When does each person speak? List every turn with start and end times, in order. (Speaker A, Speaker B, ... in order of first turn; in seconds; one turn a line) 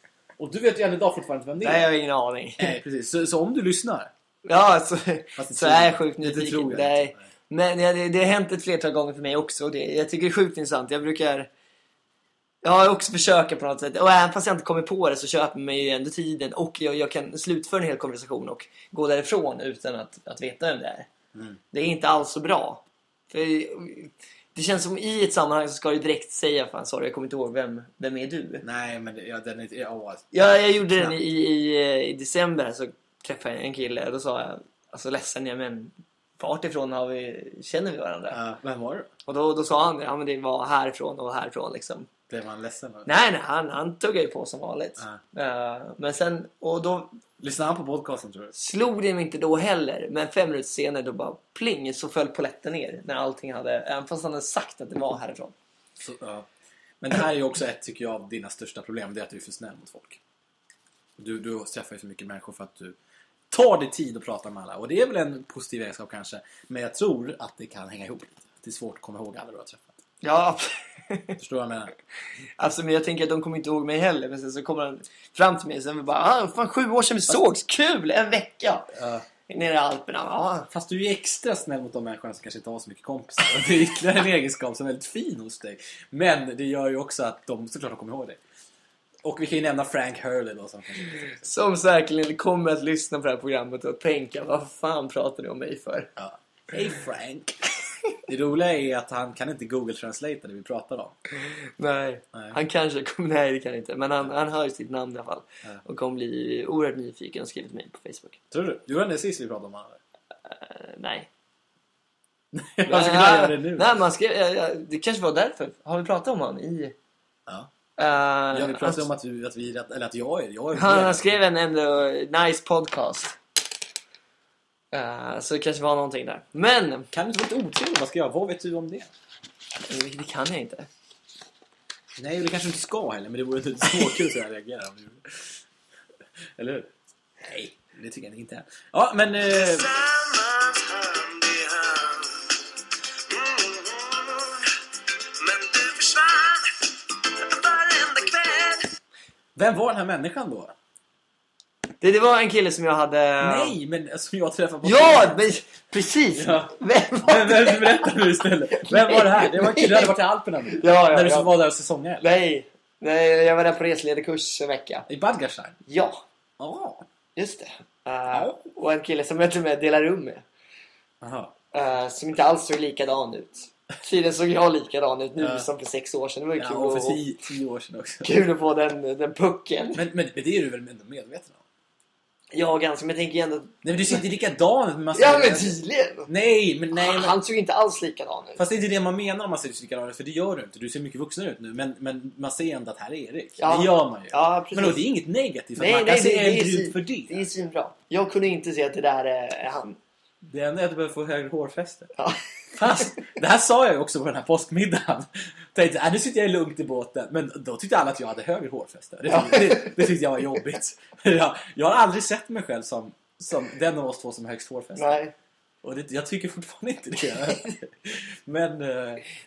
Speaker A: 0.4-1.9
Speaker B: 1.6-2.8
Speaker A: 2.6-4.1
Speaker B: 4.4-11.5
Speaker A: 5.4-7.2
Speaker B: 12.6-21.1
Speaker A: 21.3-21.6
Speaker B: 21.7-28.6
Speaker A: 28.6-30.3
Speaker B: 30.3-38.4
Speaker A: 38.3-39.1
Speaker B: 39.2-42.1
Speaker A: 42.3-43.1
Speaker B: 43.0-47.2
Speaker A: 47.4-48.5
Speaker B: 48.5-55.5
Speaker A: 56.0-56.5
Speaker A: 57.0-60.2
Speaker A: 61.2-63.0
Speaker A: 63.5-69.9
Speaker B: 70.2-71.4
Speaker A: 71.4-71.9
Speaker B: 72.6-78.9
Speaker A: 78.9-79.2
Speaker B: 79.5-80.7
Speaker A: 80.7-88.4
Speaker A: 89.2-91.4
Speaker B: 91.4-96.1
Speaker A: 96.2-97.6
Speaker A: 98.3-101.2
Speaker B: 101.4-108.4
Speaker A: 108.5-110.0
Speaker B: 110.5-111.3
Speaker A: 112.5-113.9
Speaker B: 112.8-116.9
Speaker B: 118.0-119.1
Speaker A: 118.5-121.3
Speaker B: 120.7-123.4
Speaker B: 124.9-127.1
Speaker A: 127.1-129.1
Speaker B: 129.8-130.9
Speaker A: 132.2-135.5
Speaker A: 136.6-136.9
Speaker A: 137.4-139.9
Speaker C: 139.4-142.6
Speaker C: 143.3-144.8
Speaker C: 145.4-148.9
Speaker A: 149.6-150.7
Speaker B: 152.0-153.8
Speaker A: 153.4-155.4
Speaker B: 154.8-160.2
Speaker A: 156.3-162.2
Speaker B: 160.7-161.5
Speaker B: 162.2-165.1
Speaker A: 165.1-165.8
Speaker B: 165.9-166.2
Speaker A: 166.6-167.0
Speaker B: 167.3-170.4
Speaker A: 168.3-168.6
Speaker A: 171.2-171.5
Speaker B: 171.7-177.2
Speaker A: 175.4-175.7
Speaker A: 176.6-178.4
Speaker B: 178.2-180.0
Speaker A: 179.9-181.6
Speaker B: 182.5-184.2
Speaker A: 183.8-187.3
Speaker B: 185.1-186.3
Speaker B: 186.9-188.6
Speaker A: 188.6-197.5
Speaker B: 193.6-195.1
Speaker B: 195.8-200.0
Speaker A: 200.4-202.1
Speaker B: 202.2-203.1
Speaker A: 202.7-215.2
Speaker B: 209.2-210.0
Speaker B: 215.0-215.3
Speaker A: 215.8-219.2